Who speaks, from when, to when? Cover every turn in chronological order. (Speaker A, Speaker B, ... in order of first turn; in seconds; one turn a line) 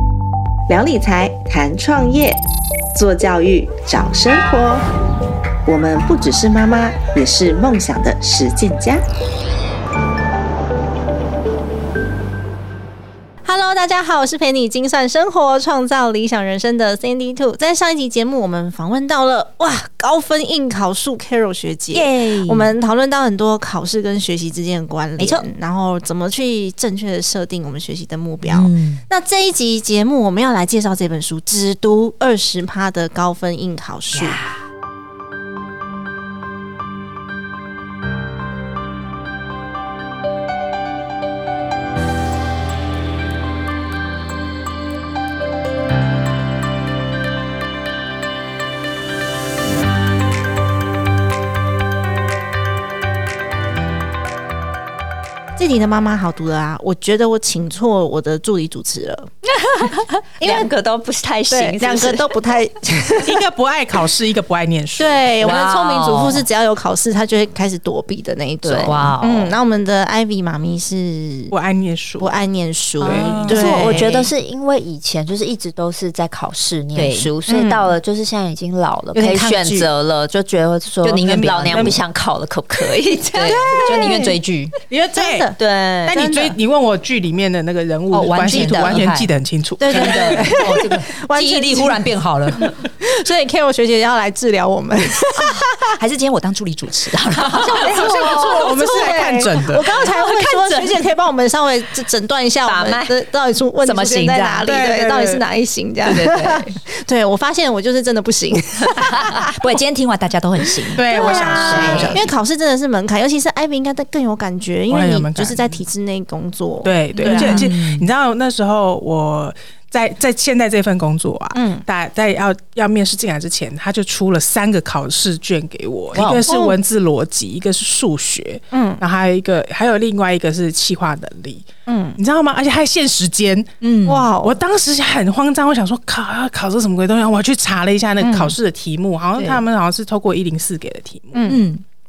Speaker A: 0.7-2.4
Speaker A: 2.9-4.8
Speaker A: 5.7-9.0
Speaker B: 13.4-34.4
Speaker C: 21.9-22.7
Speaker C: 25.2-25.5
Speaker C: 28.4-29.0
Speaker C: 34.1-34.6
Speaker B: 55.6-59.3
Speaker D: 59.7-62.4
Speaker B: 60.4-60.7
Speaker B: 61.5-63.4
Speaker E: 63.2-65.3
Speaker B: 65.0-71.5
Speaker C: 65.4-66.5
Speaker D: 68.6-69.1
Speaker C: 68.8-69.6
Speaker E: 71.5-72.3
Speaker B: 72.2-74.2
Speaker E: 73.0-73.8
Speaker D: 73.0-83.8
Speaker C: 73.3-74.3
Speaker C: 77.0-77.3
Speaker B: 77.5-78.0
Speaker C: 79.1-79.9
Speaker C: 81.0-82.0
Speaker E: 81.3-82.0
Speaker C: 83.0-84.7
Speaker B: 83.4-84.3
Speaker E: 84.9-85.5
Speaker B: 85.2-85.6
Speaker D: 85.6-86.2
Speaker E: 86.1-90.6
Speaker B: 86.1-86.6
Speaker C: 88.1-89.3
Speaker B: 88.6-89.0
Speaker B: 89.8-92.0
Speaker C: 89.9-92.7
Speaker B: 92.5-95.6
Speaker C: 95.3-98.9
Speaker B: 97.4-109.6
Speaker E: 97.5-100.0
Speaker C: 99.9-101.1
Speaker C: 102.6-103.2
Speaker C: 103.8-104.7
Speaker E: 104.7-105.4
Speaker C: 106.1-106.7
Speaker C: 109.0-112.3
Speaker B: 110.8-117.7
Speaker E: 111.0-112.3
Speaker E: 114.9-115.8
Speaker E: 116.8-133.7
Speaker C: 117.2-118.1
Speaker B: 121.5-121.8
Speaker C: 126.1-126.5
Speaker B: 126.5-126.8
Speaker B: 128.7-129.0
Speaker B: 131.9-132.2
Speaker C: 133.8-134.3
Speaker B: 134.1-134.6
Speaker E: 134.4-141.5
Speaker B: 138.2-138.6
Speaker B: 141.3-141.6
Speaker C: 141.5-141.8